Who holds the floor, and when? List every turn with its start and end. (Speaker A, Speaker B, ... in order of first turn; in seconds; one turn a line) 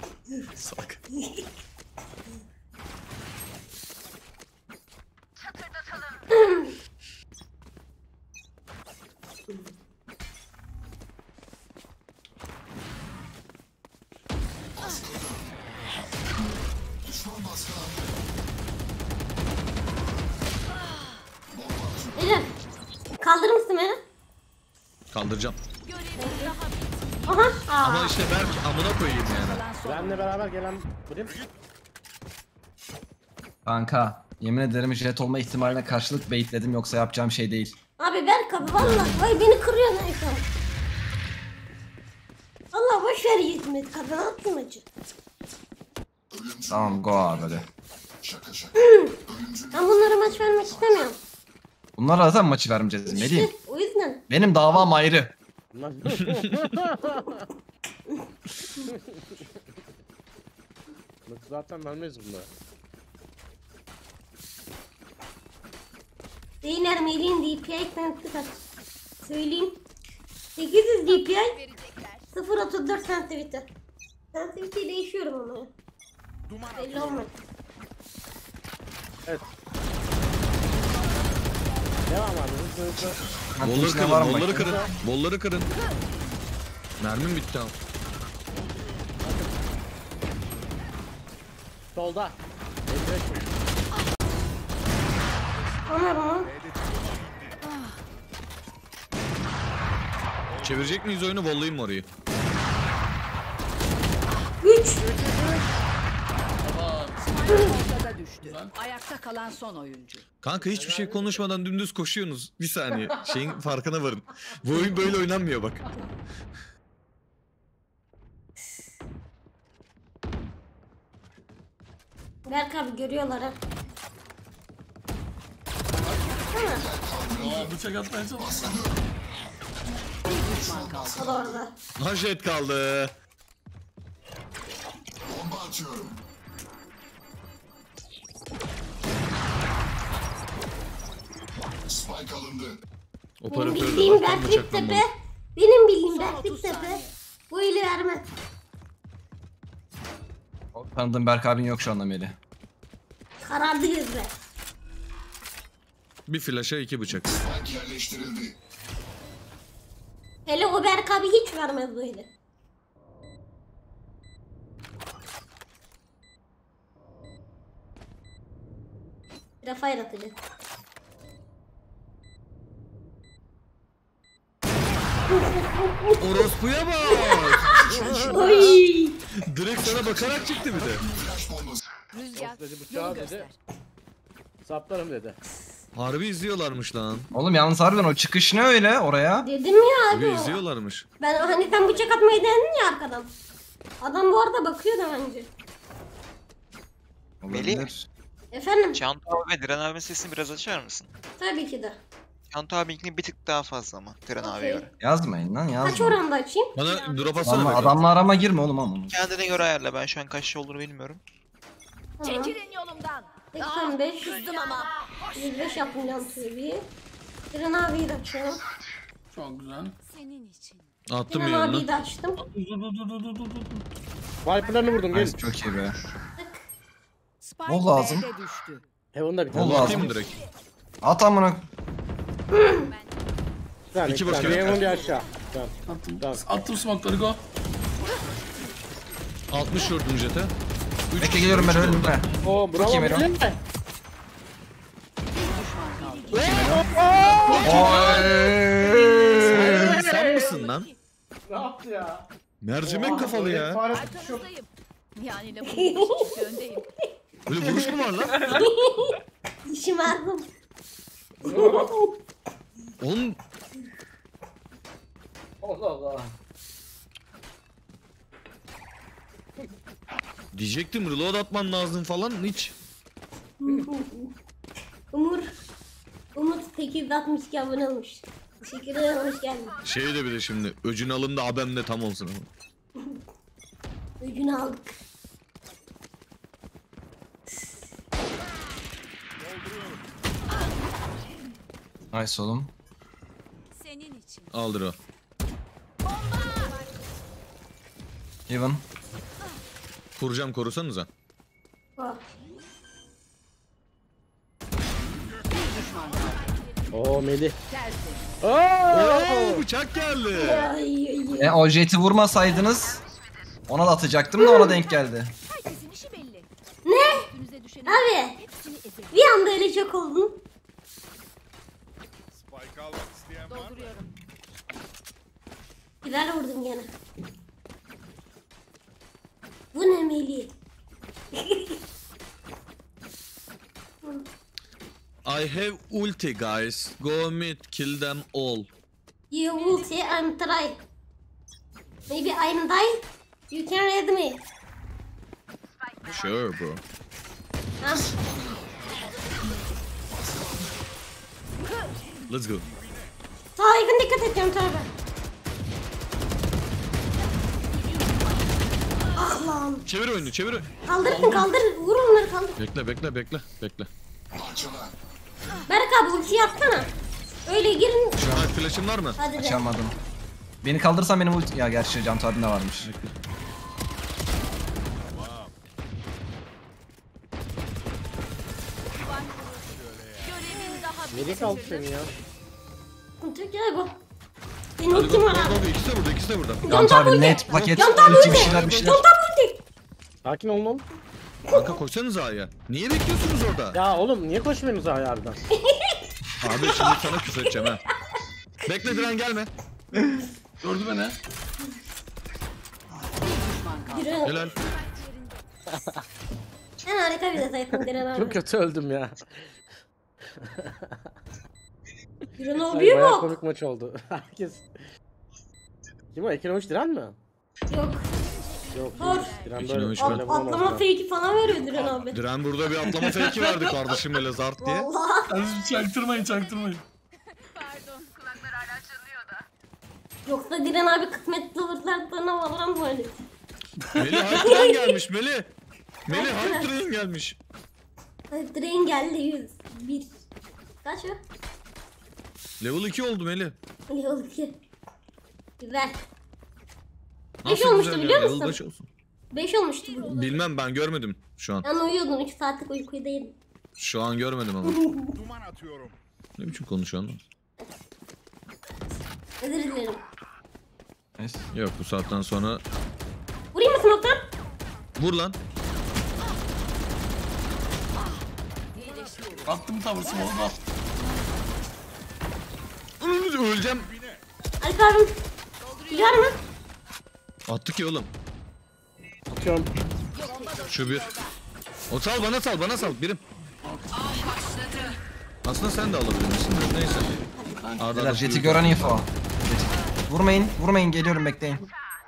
Speaker A: 0.5-1.0
Speaker B: 6.3-6.7
Speaker C: 14.8-15.6
Speaker C: 17.0-18.2
Speaker D: 20.7-21.2
Speaker C: 21.5-22.5
Speaker B: 22.2-22.5
Speaker B: 23.2-24.0
Speaker A: 25.1-25.6
Speaker D: 25.8-27.6
Speaker B: 26.2-26.6
Speaker B: 27.3-28.2
Speaker A: 27.8-29.6
Speaker E: 29.0-30.5
Speaker F: 29.8-31.4
Speaker G: 33.6-37.8
Speaker B: 38.0-40.5
Speaker B: 42.7-44.9
Speaker C: 46.3-47.7
Speaker G: 46.7-47.6
Speaker C: 48.2-51.1
Speaker B: 48.8-49.2
Speaker B: 49.7-51.2
Speaker G: 52.0-53.5
Speaker B: 53.1-54.2
Speaker G: 54.3-55.3
Speaker F: 55.7-57.5
Speaker F: 58.9-59.4
Speaker F: 61.3-62.5
Speaker B: 66.6-68.6
Speaker B: 69.2-69.8
Speaker B: 70.6-71.6
Speaker D: 71.1-72.3
Speaker B: 72.3-73.7
Speaker B: 74.3-75.7
Speaker H: 76.5-77.3
Speaker B: 76.7-77.3
Speaker F: 82.1-83.2
Speaker G: 83.5-84.8
Speaker A: 83.6-85.7
Speaker F: 84.5-84.9
Speaker A: 87.0-87.7
Speaker F: 88.5-89.5
Speaker H: 88.7-89.1
Speaker F: 92.0-93.5
Speaker H: 95.9-97.6
Speaker B: 95.9-96.5
Speaker D: 97.7-98.0
Speaker H: 100.5-101.0
Speaker A: 100.6-102.1
Speaker B: 104.6-105.0
Speaker F: 105.0-105.6
Speaker I: 106.6-107.8
Speaker E: 107.3-110.2
Speaker I: 108.4-108.7
Speaker A: 110.4-116.0
Speaker F: 110.5-111.4
Speaker B: 122.5-123.6
Speaker B: 126.5-126.8
Speaker C: 126.5-127.8
Speaker I: 127.4-128.8
Speaker C: 128.4-129.0
Speaker E: 130.3-131.4
Speaker C: 130.3-131.6
Speaker B: 131.2-131.7
Speaker A: 132.0-133.1
Speaker C: 135.3-136.2
Speaker C: 141.8-142.8
Speaker A: 143.4-145.0
Speaker B: 143.5-148.3
Speaker E: 146.1-147.1
Speaker G: 150.8-152.3
Speaker B: 153.4-154.3
Speaker A: 156.3-157.3
Speaker C: 157.2-158.5
Speaker B: 160.5-162.3
Speaker B: 169.6-170.4
Speaker B: 175.3-176.2
Speaker A: 176.2-178.5
Speaker B: 177.1-179.2
Speaker C: 177.7-178.5
Speaker F: 177.9-178.7
Speaker A: 179.5-181.1
Speaker C: 179.8-181.9
Speaker D: 182.1-183.6
Speaker F: 182.3-183.5
Speaker F: 184.6-185.4
Speaker A: 185.9-187.3
Speaker G: 187.3-189.5
Speaker B: 189.4-190.6
Speaker A: 190.1-191.1
Speaker B: 191.2-193.3
Speaker D: 191.3-192.4
Speaker B: 194.0-195.5
Speaker G: 197.4-198.1
Speaker J: 197.5-197.9
Speaker B: 198.5-199.0
Speaker J: 198.9-201.1
Speaker B: 201.4-202.0
Speaker J: 202.5-204.9
Speaker B: 204.4-204.9
Speaker G: 205.0-206.2
Speaker B: 205.8-206.8
Speaker A: 206.8-208.0
Speaker D: 206.8-208.2
Speaker G: 207.4-209.2
Speaker J: 209.1-211.2
Speaker B: 212.2-212.6
Speaker D: 212.2-216.5
Speaker B: 213.5-214.5
Speaker B: 215.3-216.9
Speaker B: 217.5-218.6
Speaker I: 219.3-220.0
Speaker D: 220.0-220.9
Speaker A: 221.1-221.9
Speaker B: 221.3-222.4
Speaker I: 222.4-223.9
Speaker F: 224.4-225.4
Speaker G: 225.1-225.9
Speaker B: 226.4-226.6
Speaker E: 227.4-228.8
Speaker G: 227.7-228.3
Speaker F: 229.1-230.2
Speaker G: 229.5-230.1
Speaker A: 229.6-230.3
Speaker D: 230.0-230.5
Speaker G: 231.0-231.6
Speaker B: 232.5-232.8
Speaker D: 232.7-233.2
Speaker F: 233.9-236.4
Speaker A: 234.1-234.9
Speaker D: 234.4-235.6
Speaker I: 235.9-237.4
Speaker D: 238.0-238.8
Speaker A: 239.5-240.5
Speaker A: 241.1-242.2
Speaker G: 241.2-243.3
Speaker D: 242.4-242.9
Speaker F: 242.4-243.6
Speaker E: 245.3-248.0
Speaker D: 245.7-251.0
Speaker G: 246.3-246.9
Speaker F: 246.3-247.8
Speaker I: 247.4-248.3
Speaker G: 247.6-249.9
Speaker F: 249.4-250.6
Speaker A: 249.5-250.9
Speaker F: 251.5-252.3
Speaker A: 252.6-253.8
Speaker F: 252.8-254.5
Speaker D: 253.9-256.9
Speaker B: 255.7-256.4
Speaker A: 257.5-258.6
Speaker B: 258.4-259.1
Speaker B: 259.7-260.5
Speaker F: 261.4-262.0
Speaker B: 261.4-262.0
Speaker A: 263.0-263.4
Speaker F: 265.6-266.3
Speaker A: 270.5-272.8
Speaker B: 273.6-274.3
Speaker B: 275.1-275.5
Speaker B: 276.4-279.8
Speaker A: 279.9-282.5
Speaker B: 284.2-284.9
Speaker H: 289.4-290.1
Speaker G: 292.1-292.7
Speaker D: 293.7-294.5
Speaker A: 294.5-295.0
Speaker D: 296.0-297.0
Speaker G: 298.5-298.8
Speaker A: 300.2-301.1
Speaker H: 305.2-306.4
Speaker E: 305.5-306.4
Speaker D: 306.1-307.2
Speaker F: 306.9-307.6
Speaker E: 307.7-308.3
Speaker F: 308.4-309.6
Speaker A: 308.9-310.7
Speaker B: 310.3-311.6
Speaker G: 311.4-313.0
Speaker G: 313.7-315.3
Speaker B: 314.4-314.8
Speaker D: 315.5-316.5
Speaker B: 316.9-317.3
Speaker D: 317.1-319.3
Speaker B: 317.9-318.4
Speaker B: 319.1-320.4
Speaker H: 322.3-324.0
Speaker D: 323.5-324.1
Speaker B: 326.0-326.9
Speaker B: 329.7-330.5
Speaker B: 331.4-331.8
Speaker A: 335.2-338.7
Speaker B: 339.3-340.8
Speaker D: 339.5-340.2
Speaker B: 342.1-344.4
Speaker D: 345.9-346.5
Speaker A: 346.0-346.8
Speaker B: 347.8-348.1
Speaker C: 347.9-350.9
Speaker D: 351.6-352.3
Speaker A: 352.3-352.7
Speaker H: 352.5-353.1
Speaker B: 353.6-354.9
Speaker D: 357.3-359.5
Speaker B: 359.2-359.9
Speaker A: 359.9-360.7
Speaker B: 360.9-362.6
Speaker I: 361.0-361.5
Speaker A: 362.6-363.9
Speaker C: 364.4-364.9
Speaker B: 365.7-366.9
Speaker D: 366.1-366.9
Speaker B: 367.5-368.2
Speaker G: 368.2-368.6
Speaker A: 368.3-369.2
Speaker B: 369.2-369.7
Speaker G: 369.4-369.9
Speaker G: 370.6-372.9
Speaker A: 372.8-373.1
Speaker H: 375.0-375.5
Speaker D: 378.9-382.0
Speaker H: 379.6-380.7
Speaker F: 381.1-382.1
Speaker B: 383.2-384.0
Speaker B: 384.8-385.6
Speaker A: 384.9-386.7
Speaker B: 386.6-389.6
Speaker G: 386.7-389.1
Speaker D: 386.7-387.7
Speaker A: 387.5-389.0
Speaker F: 390.2-390.9
Speaker A: 391.5-393.8
Speaker F: 393.7-395.4
Speaker B: 395.6-396.0
Speaker A: 396.4-397.8
Speaker B: 396.6-397.7
Speaker A: 398.7-399.5
Speaker I: 400.6-401.2
Speaker E: 403.2-404.3
Speaker B: 403.9-404.4
Speaker D: 404.2-405.4
Speaker A: 404.2-404.6
Speaker H: 404.3-404.7
Speaker F: 405.7-406.0
Speaker B: 406.9-408.4
Speaker F: 408.1-409.4
Speaker F: 410.4-411.0
Speaker B: 412.4-413.4
Speaker F: 412.7-414.7
Speaker F: 416.1-417.2
Speaker B: 417.7-418.1
Speaker D: 418.1-419.7
Speaker F: 418.7-420.9
Speaker B: 419.0-419.4
Speaker A: 419.5-420.3
Speaker B: 420.0-422.2
Speaker A: 421.7-424.9
Speaker I: 422.8-424.0
Speaker B: 424.6-425.3
Speaker I: 425.3-426.8
Speaker D: 427.3-429.3
Speaker B: 430.3-433.1
Speaker I: 433.8-434.5
Speaker A: 433.9-435.5
Speaker B: 434.4-435.0
Speaker A: 436.1-437.4
Speaker B: 436.1-436.7
Speaker B: 438.3-440.1
Speaker B: 440.8-441.2
Speaker A: 442.6-443.6
Speaker B: 443.9-444.6
Speaker B: 445.6-446.0
Speaker A: 447.4-448.9
Speaker B: 447.4-448.6
Speaker B: 449.3-450.2
Speaker D: 449.8-450.5
Speaker A: 450.1-451.6
Speaker B: 451.6-453.4
Speaker A: 453.8-454.9
Speaker B: 454.7-455.0
Speaker H: 455.1-456.0
Speaker A: 456.4-457.2
Speaker B: 459.4-460.0
Speaker G: 461.2-461.4
Speaker A: 461.5-462.6
Speaker B: 463.5-464.2
Speaker A: 465.0-465.4
Speaker D: 467.9-470.3
Speaker E: 468.8-469.6
Speaker I: 469.5-470.6
Speaker D: 471.0-471.4
Speaker A: 473.0-473.9
Speaker H: 473.6-474.2
Speaker B: 474.6-475.1
Speaker D: 475.6-476.3
Speaker B: 475.9-476.4
Speaker A: 477.5-478.1
Speaker F: 479.3-479.7
Speaker D: 480.1-481.4
Speaker H: 480.3-481.0
Speaker A: 480.7-481.1
Speaker A: 481.9-483.2
Speaker I: 483.6-484.1
Speaker D: 484.1-484.4
Speaker E: 484.1-484.9
Speaker A: 485.4-487.1
Speaker I: 487.2-487.9
Speaker A: 487.8-489.1
Speaker G: 487.9-491.6